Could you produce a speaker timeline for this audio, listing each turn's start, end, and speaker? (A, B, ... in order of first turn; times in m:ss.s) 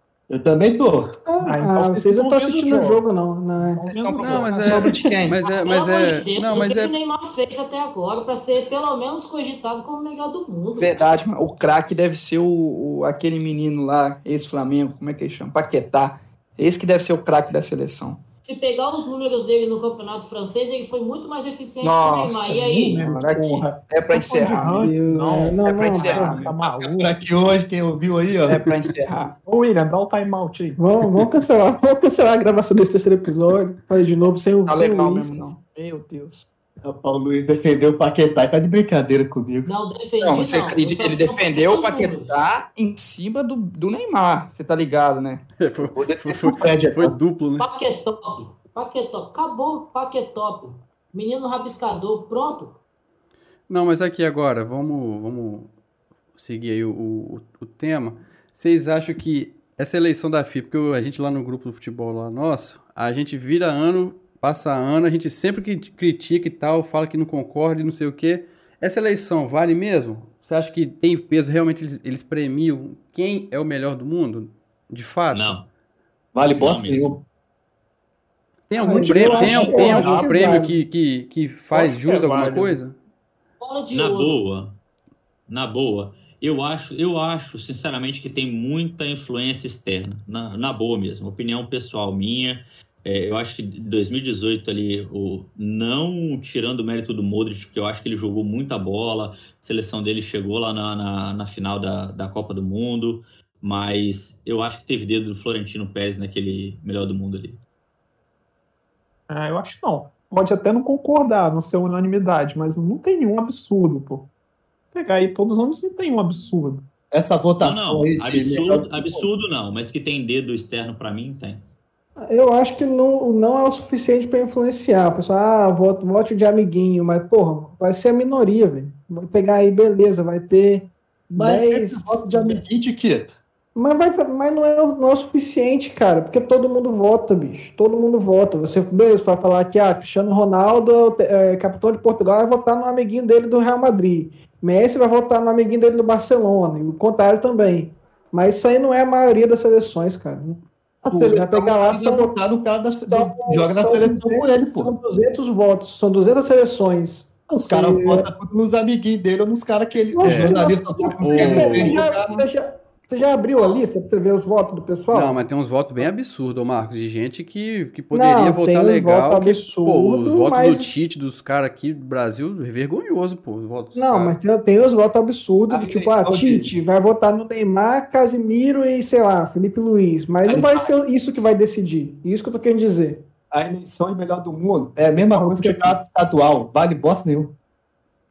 0:00.3-0:01.1 A
0:01.2-0:03.8 B
0:01.4-0:03.0 C
0:03.8-0:04.9 C
0:03.8-0:05.5 D
0:04.2-0:06.9 E
0:05.6-0:11.1 F
0:10.8-0:18.2 D
0:18.4-0:23.0 F
0:21.8-0:24.9 D
0:22.5-0:27.2 C
0:24.4-0:26.5 B
0:25.6-0:26.9 D
0:27.0-0:28.6 A
0:28.4-0:29.3 D
0:29.4-0:30.9 C
0:30.8-0:35.4 B
0:34.7-0:36.5 D
0:36.8-0:39.7 A
0:39.6-0:42.4 F
0:40.2-0:45.4 D
0:45.6-0:47.7 E
0:45.9-0:47.1 A
0:47.6-0:52.8 F
0:53.7-0:55.7 E
0:56.3-1:15.6 E
1:15.3-1:15.6 G
1:16.3-1:17.2 A
1:16.6-1:17.1 G
1:18.7-1:23.0 E
1:18.8-1:20.8 B
1:18.8-1:20.7 C
1:21.7-1:22.8 C
1:23.6-1:24.4 F
1:23.9-1:24.7 G
1:25.5-1:47.6 G
1:49.3-1:54.2 C
1:54.9-1:56.8 C
1:57.1-1:59.3 A
1:57.6-2:01.6 G
2:02.2-2:12.6 B
2:11.4-2:13.3 A
2:13.7-2:32.3 B
2:31.0-2:34.9 A
2:32.9-2:38.3 B
2:37.5-2:42.5 A
2:40.1-2:45.4 B
2:40.2-2:40.6 E
2:41.2-2:42.0 E
2:43.6-2:43.8 F
2:45.1-2:54.4 E
2:48.1-2:51.0 B
2:53.9-3:03.2 B
2:55.7-2:56.7 A
3:00.4-3:00.9 A
3:03.5-3:07.5 A
3:05.4-3:06.0 C